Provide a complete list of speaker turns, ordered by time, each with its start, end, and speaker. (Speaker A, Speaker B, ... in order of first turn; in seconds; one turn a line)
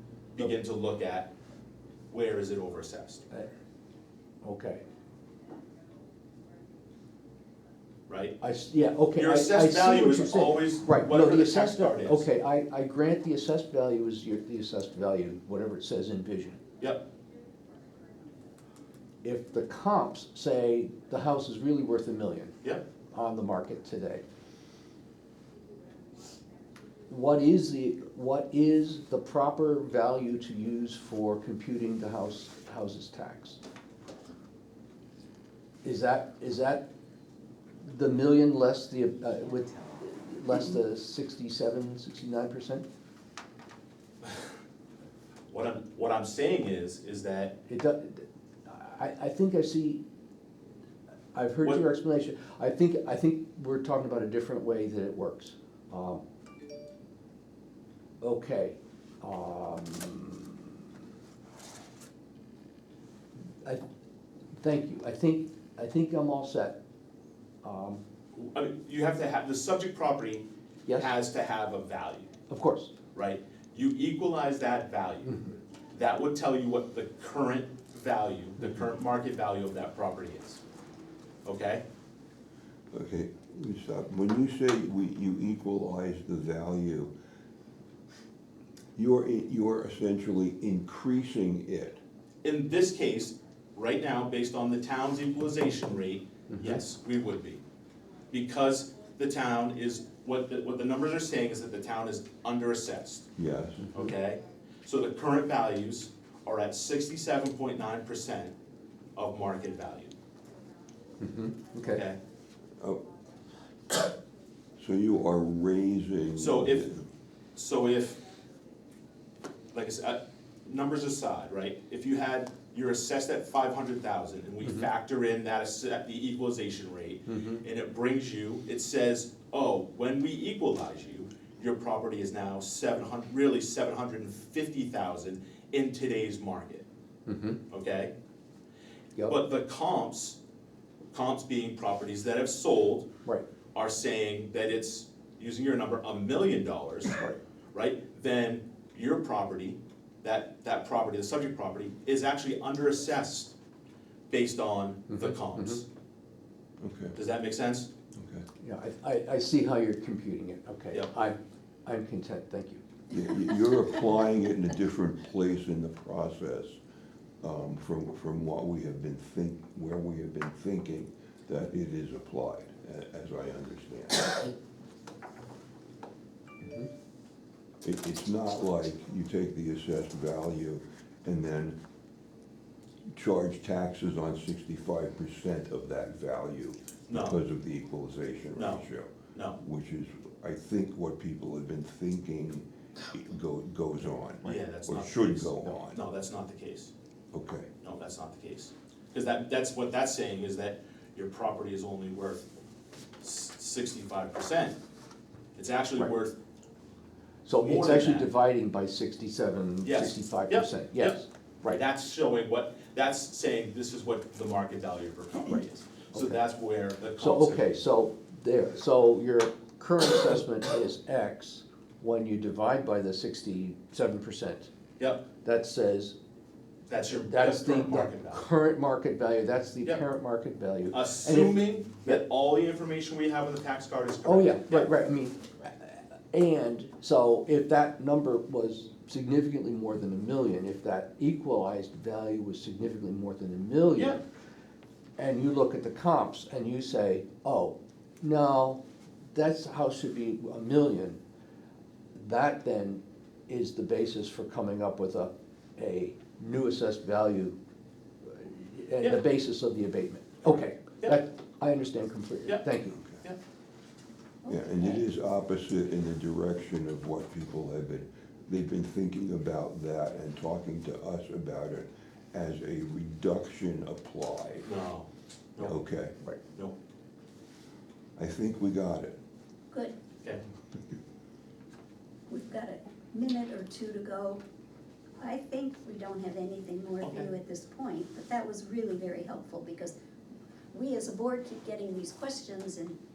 Speaker A: 0.3-1.3
Speaker A: 2.1-3.3
Speaker B: 4.4-4.8
Speaker A: 8.1-8.4
Speaker B: 8.4-16.6
Speaker A: 9.1-12.3
Speaker B: 19.2-22.6
Speaker B: 23.1-24.2
Speaker B: 27.1-33.6
Speaker B: 35.8-36.9
Speaker B: 37.8-42.8
Speaker A: 45.5-47.6
Speaker B: 47.7-50.0
Speaker B: 51.3-56.2
Speaker B: 58.2-60.9
Speaker B: 64.6-66.8
Speaker B: 67.6-68.0
Speaker A: 68.3-72.3
Speaker B: 72.5-72.9
Speaker A: 73.1-80.6
Speaker A: 81.4-81.8
Speaker C: 82.9-87.1
Speaker C: 89.0-92.0
Speaker A: 92.4-97.6
Speaker B: 96.5-96.8
Speaker A: 98.3-103.3
Speaker C: 103.4-103.9
Speaker A: 103.9-108.5
Speaker A: 109.2-110.1
Speaker B: 111.2-112.0
Speaker A: 111.9-112.2
Speaker C: 112.8-113.0
Speaker C: 114.8-117.0
Speaker A: 116.4-116.9
Speaker A: 117.5-118.2
Speaker A: 119.7-136.8
Speaker B: 127.3-127.6
Speaker B: 137.3-137.6
Speaker A: 137.7-138.1
Speaker A: 139.2-140.4
Speaker A: 141.1-143.1
Speaker A: 143.7-147.2
Speaker A: 147.7-153.5
Speaker A: 154.3-155.8
Speaker B: 155.1-155.8
Speaker C: 156.8-157.2
Speaker A: 157.2-157.9
Speaker C: 158.2-158.4
Speaker B: 158.6-162.8
Speaker C: 163.1-166.8
Speaker C: 167.4-174.5
Speaker B: 176.6-176.9
Speaker C: 177.8-181.8
Speaker C: 183.1-196.0
Speaker A: 187.1-187.4
Speaker A: 188.5-189.6
Speaker A: 194.4-196.9
Speaker C: 197.3-197.7
Speaker A: 197.8-202.5
Speaker A: 203.2-204.8
Speaker A: 205.6-206.3
Speaker B: 207.4-211.8
Speaker A: 207.6-208.3
Speaker A: 209.8-217.7
Speaker B: 216.1-216.4
Speaker B: 217.2-224.7
Speaker A: 225.0-225.3
Speaker B: 225.4-226.2
Speaker A: 226.9-228.4
Speaker B: 227.0-232.2
Speaker A: 230.9-234.9
Speaker B: 234.2-244.2
Speaker B: 245.2-248.8
Speaker B: 249.3-251.2
Speaker B: 252.1-257.6
Speaker B: 258.2-263.0
Speaker D: 264.4-265.0
Speaker C: 264.5-274.7
Speaker A: 274.6-275.8
Speaker C: 275.6-276.1
Speaker C: 278.2-279.2
Speaker D: 282.3-284.4
Speaker D: 285.2-289.9
Speaker D: 290.7-293.0